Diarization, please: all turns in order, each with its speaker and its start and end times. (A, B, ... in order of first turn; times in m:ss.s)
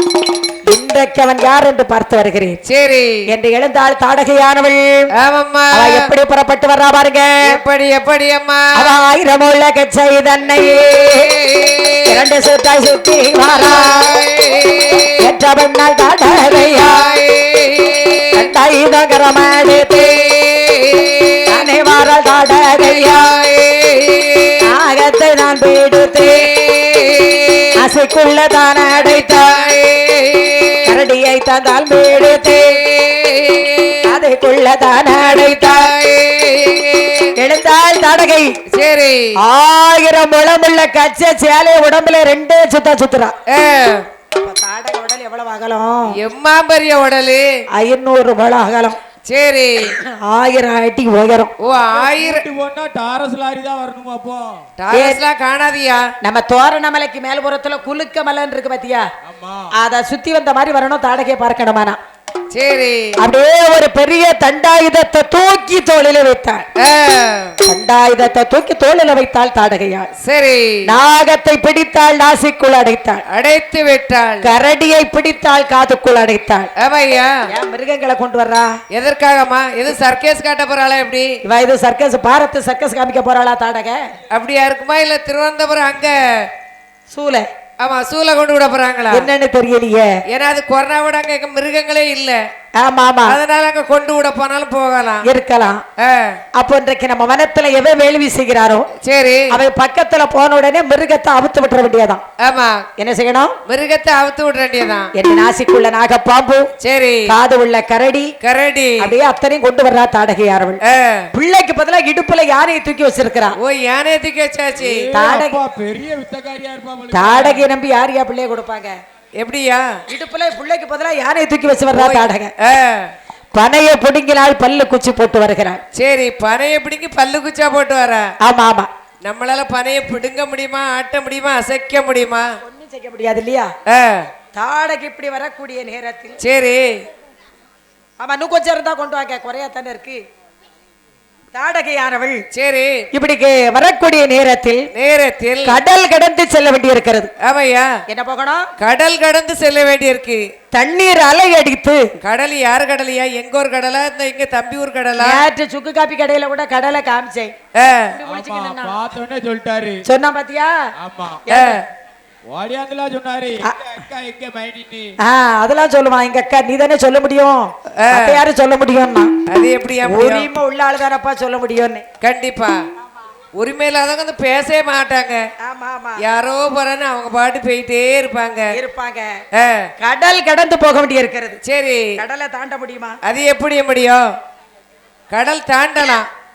0:00.7-0:02.6 A
0:02.7-0:03.2 B
0:03.3-0:05.1 A
0:05.2-0:06.0 B
0:05.7-0:07.6 A
0:07.4-0:08.9 B
0:08.8-0:11.3 A
0:11.1-0:12.0 B
0:12.0-0:14.2 A
0:13.7-0:15.1 B
0:15.2-0:17.2 A
0:16.7-0:18.4 B
0:18.3-0:20.2 A
0:19.9-0:21.4 B
0:21.5-0:23.3 A
0:22.8-0:24.6 B
0:24.6-0:26.5 A
0:26.4-0:27.7 B
0:27.8-0:29.7 A
0:28.9-0:30.9 B
0:30.8-0:32.8 A
0:32.1-0:34.1 B
0:34.0-0:35.9 A
0:35.2-0:37.3 B
0:37.4-0:38.5 A
0:38.8-0:39.2 B
0:39.4-0:43.3 A
0:43.5-0:44.0 B
0:44.3-0:46.1 A
0:46.2-0:47.4 B
0:47.8-0:49.0 A
0:49.3-0:49.9 B
0:50.0-0:51.5 A
0:51.6-0:52.4 B
0:51.7-0:54.6 C
0:54.8-0:56.0 B
0:54.9-0:55.2 A
0:56.2-0:59.1 A
0:59.2-0:59.7 C
0:59.8-1:02.0 A
1:02.5-1:03.1 B
1:03.2-1:06.6 A
1:06.8-1:07.5 B
1:07.6-1:10.1 A
1:10.2-1:10.8 B
1:10.9-1:13.2 A
1:13.3-1:14.5 B
1:14.4-1:16.7 A
1:16.8-1:17.3 B
1:17.5-1:18.7 A
1:18.9-1:21.3 B
1:21.4-1:24.0 A
1:24.3-1:26.5 B
1:27.1-1:27.4 A
1:27.8-1:29.3 B
1:29.1-1:30.1 A
1:30.3-1:32.4 B
1:32.8-1:33.4 A
1:33.2-1:35.2 B
1:35.2-1:35.8 A
1:36.0-1:36.4 B
1:36.6-1:38.9 A
1:39.0-1:39.5 B
1:39.5-1:42.2 A
1:42.4-1:42.8 B
1:43.0-1:43.5 A
1:43.7-1:45.1 B
1:45.2-1:46.6 A
1:46.8-1:47.2 B
1:47.3-1:48.3 A
1:48.4-1:49.1 B
1:49.0-1:50.8 A
1:50.9-1:51.2 B
1:51.3-1:53.5 A
1:53.6-1:55.1 B
1:54.8-1:57.7 C
1:55.1-1:55.6 A
1:57.1-1:58.9 A
1:59.4-1:59.8 B
2:00.1-2:02.5 A
2:01.9-2:03.1 B
2:03.5-2:05.8 A
2:06.0-2:08.2 B
2:08.4-2:08.9 A
2:09.2-2:12.4 B
2:12.6-2:13.7 A
2:13.9-2:14.3 B
2:14.5-2:16.4 A
2:16.4-2:17.0 B
2:18.2-2:20.2 A
2:21.5-2:22.4 A
2:22.5-2:23.0 B
2:23.1-2:24.9 A
2:24.9-2:25.8 B
2:25.6-2:27.3 A
2:27.4-2:27.9 B
2:28.1-2:28.7 A
2:28.8-2:30.4 B
2:30.7-2:32.0 A
2:32.2-2:35.4 B
2:35.2-2:37.5 A
2:37.8-2:38.2 B
2:38.2-2:39.0 A
2:38.2-2:40.0 C
2:40.1-2:40.7 A
2:41.0-2:41.4 C
2:41.5-2:41.8 A
2:41.5-2:41.8 B
2:42.5-2:45.1 C
2:45.2-2:49.3 A
2:48.0-2:48.4 B
2:49.5-2:50.5 B
2:50.0-2:52.0 A
2:52.2-2:52.8 B
2:53.6-2:55.4 B
2:55.6-2:56.2 A
2:56.2-2:58.7 B
2:58.7-2:59.3 A
2:59.6-2:59.9 B
3:00.0-3:01.6 A
3:01.6-3:02.1 B
3:02.2-3:03.2 A
3:03.2-3:04.2 B
3:05.3-3:06.3 B